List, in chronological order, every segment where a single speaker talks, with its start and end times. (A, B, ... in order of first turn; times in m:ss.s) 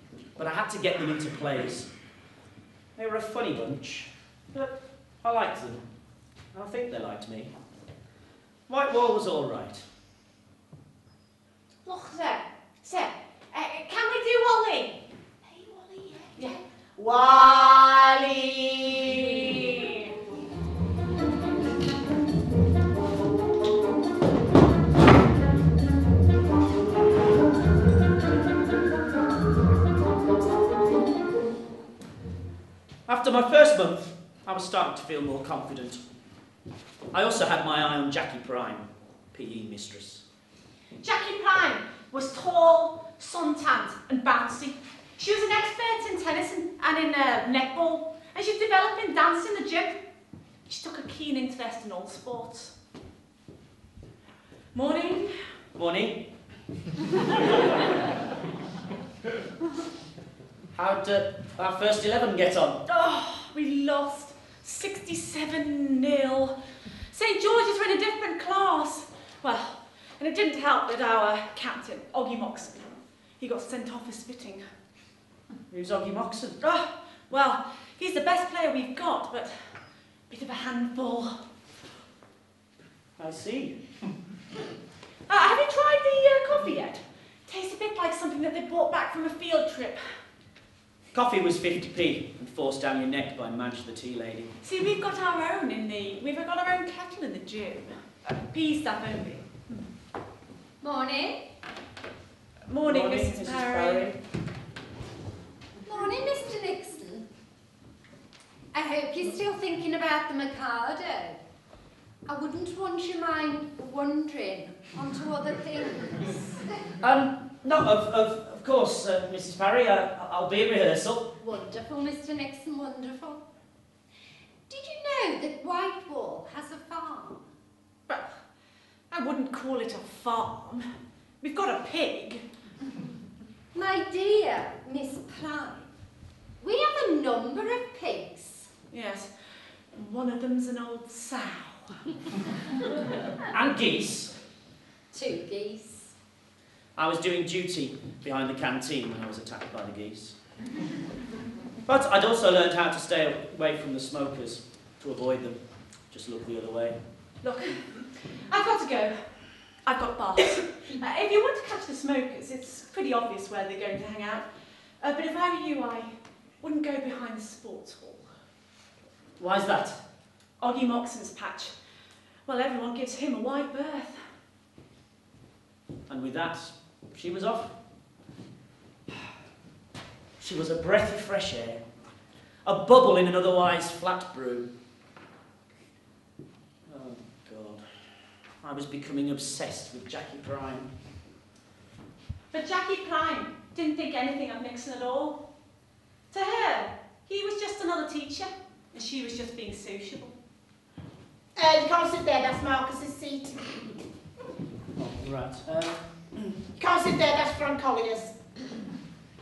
0:00.4-0:01.9 A
0:03.0-0:05.8 A
0:06.5-0:07.5 A
0:08.7-0:09.8 A
0:11.8-0:15.0 B
0:15.5-0:16.6 B
0:17.0-0:20.0 C
0:33.1-0:36.0 A
0:37.1-0:40.2 A
0:41.0-0:50.0 B
0:50.7-0:52.7 B
0:54.7-0:55.3 B
0:55.8-0:56.3 A
1:00.8-1:02.8 A
1:02.9-1:06.6 B
1:07.1-1:14.6 B
1:15.7-1:16.6 A
1:16.6-1:21.4 B
1:23.2-1:23.8 A
1:25.3-1:30.0 B
1:31.1-1:34.5 A
1:34.6-1:39.9 B
1:40.8-1:41.4 D
1:42.7-1:44.1 B
1:42.8-1:44.2 A
1:45.8-1:47.2 D
1:48.7-1:51.4 D
1:52.3-1:56.7 D
1:57.0-2:01.3 A
2:01.4-2:03.4 D
2:04.7-2:07.4 D
2:09.1-2:10.9 B
2:11.4-2:12.4 B
2:13.7-2:15.9 D
2:16.6-2:18.7 D
2:18.9-2:19.3 B
2:19.9-2:22.0 B
2:23.5-2:24.3 A
2:25.1-2:26.1 D
2:27.0-2:30.4 A
2:31.9-2:35.6 A
2:36.1-2:37.0 A
2:37.4-2:39.2 B
2:39.8-2:44.5 B
2:45.0-2:46.1 B
2:46.6-2:48.2 B
2:49.4-2:50.0 A
2:50.6-2:51.7 B
2:52.5-2:54.2 B
2:56.1-2:57.7 A
3:00.4-3:01.8 A
3:02.6-3:04.7 A
3:06.9-3:07.8 A
3:08.6-3:10.9 A
3:12.5-3:15.4 B
3:16.3-3:20.3 B
3:21.6-3:23.8 C
3:25.0-3:26.5 A
3:26.8-3:28.3 C